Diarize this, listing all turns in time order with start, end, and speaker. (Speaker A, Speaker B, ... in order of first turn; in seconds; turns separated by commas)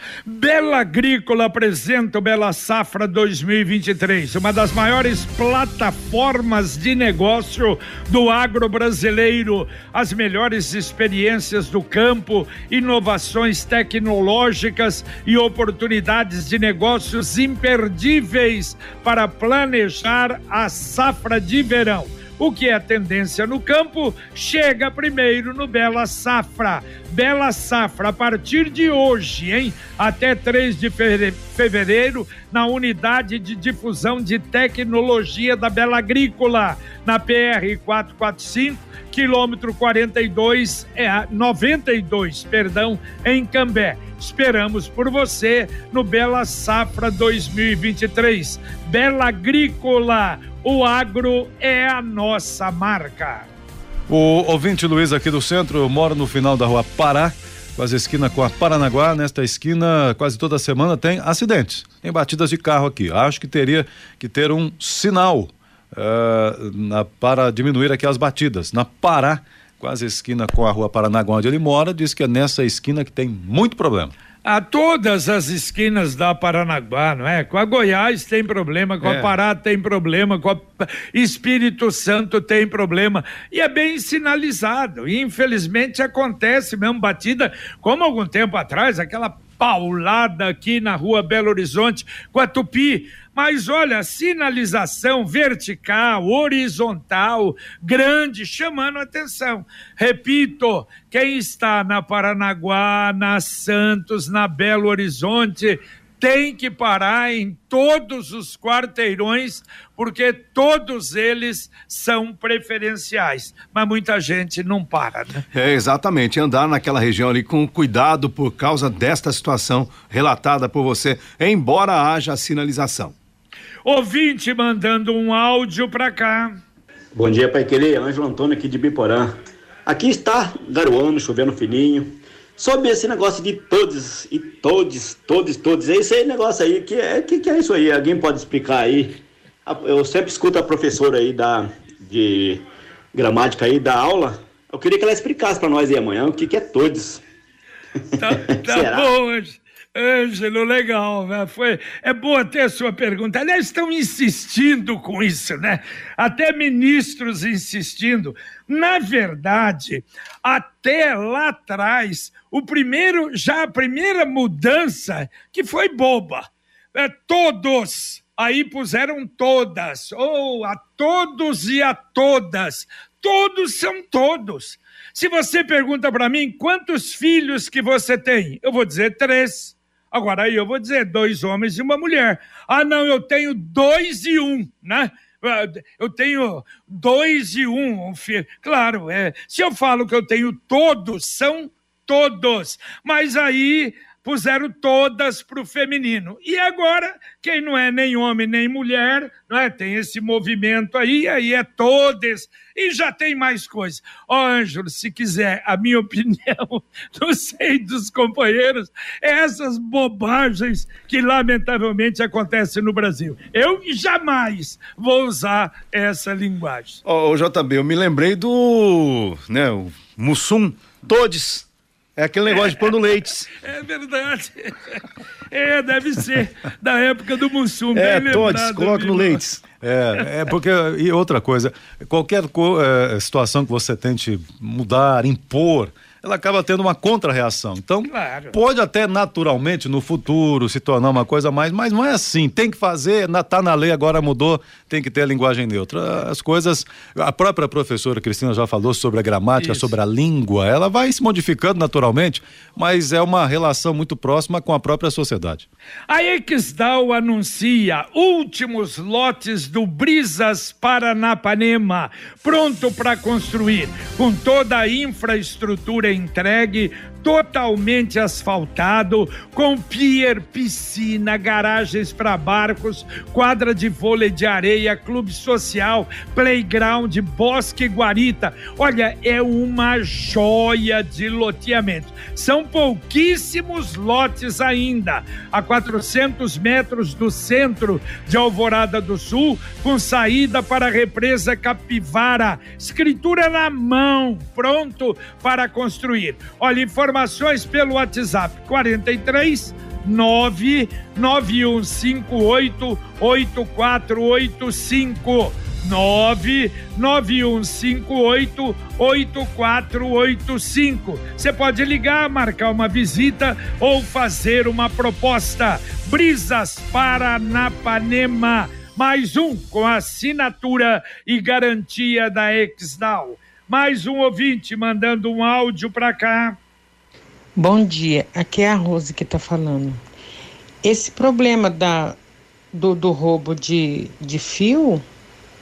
Speaker A: 0.2-53.5, Speaker B: 54.1-74.1, Speaker A: 74.4-115.4, Speaker C: 115.5-123.1, Speaker A: 123.8-126.6, Speaker D: 127.1-129.3, Speaker D: 129.8-142.6, Speaker D: 143.1-147.2, Speaker A: 148.2-217.0, Speaker D: 148.2-149.1, Speaker C: 217.0-223.5, Speaker A: 223.6-229.4, Speaker C: 227.9-229.6, Speaker B: 229.8-255.7, Speaker A: 238.1-238.5, Speaker A: 249.6-249.9, Speaker A: 256.1-326.6, Speaker E: 327.6-330.0, Speaker E: 330.8-332.2, Speaker E: 332.7-335.0